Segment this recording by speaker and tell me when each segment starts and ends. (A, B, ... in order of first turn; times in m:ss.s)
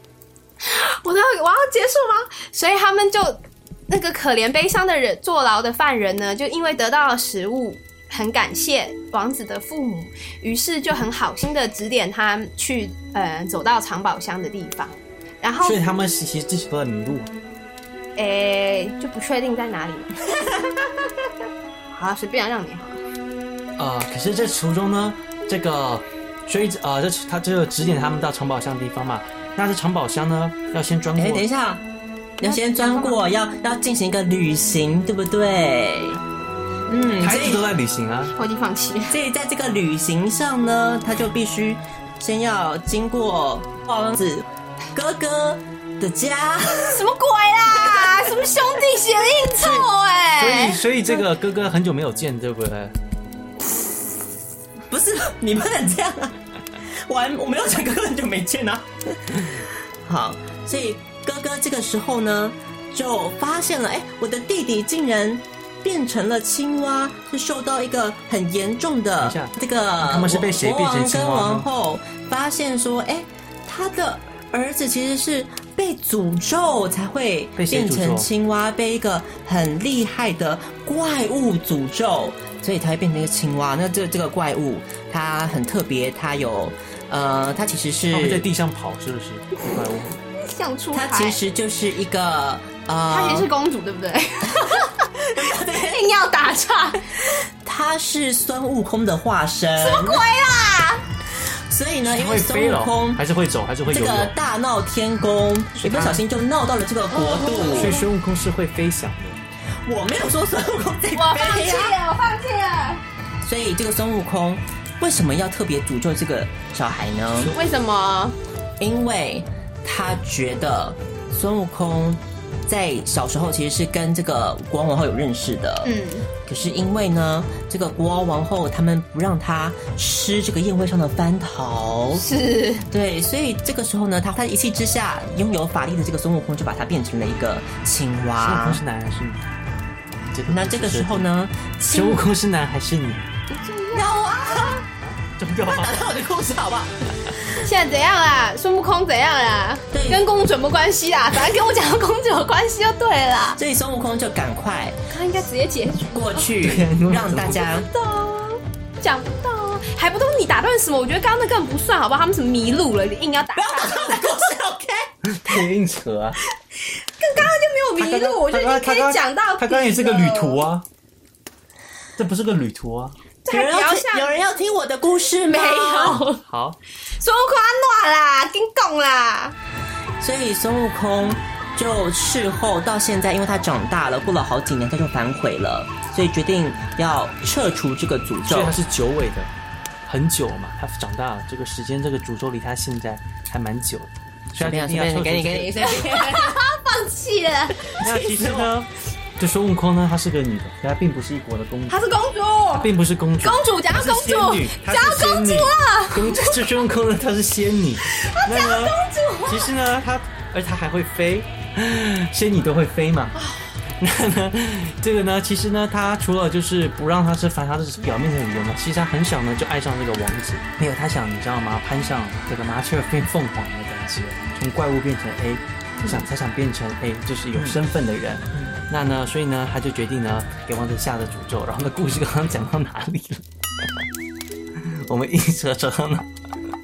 0:00.6-0:15.8 A
0:15.6-0:17.3 B
0:18.2-0:20.2 A
0:21.9-0:23.0 A
0:23.8-0:31.4 B
0:31.2-0:31.8 C
0:32.4-0:36.2 C
0:32.4-0:33.2 A
0:36.9-0:37.6 C
0:37.2-0:38.3 B
0:38.3-0:39.2 A
0:39.1-0:47.0 C
0:46.9-0:50.8 A
0:47.7-0:48.3 C
0:49.6-0:52.9 B
0:54.9-0:56.4 C
0:56.9-1:28.5 C
1:09.2-1:11.7 B
1:17.6-1:18.3 B
1:28.1-1:30.2 B
1:30.4-1:31.4 A
1:30.9-1:33.5 C
1:33.1-1:37.1 A
1:34.5-1:34.8 C
1:35.3-1:36.0 C
1:37.6-1:40.2 C
1:39.8-1:41.0 A
1:41.4-1:43.2 C
1:42.0-1:44.3 B
1:43.9-1:48.0 C
1:45.8-1:46.2 B
1:47.1-1:48.0 A
1:47.6-1:49.4 B
1:49.8-1:52.0 C
1:51.1-1:53.0 A
1:53.4-1:57.5 C
1:57.5-1:58.4 A
1:58.8-2:05.9 C
2:05.8-2:06.3 A
2:06.4-2:12.2 C
2:12.1-2:12.8 A
2:12.9-2:18.8 C
2:18.4-2:19.4 B
2:20.3-2:21.3 B
2:20.5-2:22.2 C
2:21.9-2:23.3 B
2:23.5-2:24.7 A
2:23.9-2:24.8 C
2:25.2-2:26.1 B
2:25.6-2:27.1 C
2:27.6-2:33.6 A
2:29.9-2:30.2 C
2:33.6-2:35.0 C
2:35.1-2:36.5 A
2:36.1-2:37.9 C
2:36.6-2:37.6 B
2:37.7-2:44.4 A
2:43.5-2:45.1 C
2:45.2-2:46.4 B
2:46.8-2:50.6 A
2:48.0-2:50.8 B
2:52.2-2:53.2 B
2:53.4-2:54.3 A
2:53.5-2:56.2 C
2:55.5-2:56.4 A
2:56.3-2:56.8 B
2:57.1-2:59.5 A
3:00.2-3:08.8 C
3:08.5-3:09.5 B
3:10.1-3:15.9 B
3:14.6-3:16.6 C
3:15.8-3:18.0 A
3:18.0-3:22.0 B
3:18.0-3:18.7 C
3:21.9-3:26.5 A
3:22.8-3:33.4 B
3:28.0-3:29.7 A
3:33.4-3:33.7 A
3:34.0-3:53.4 B
3:54.8-3:56.3 B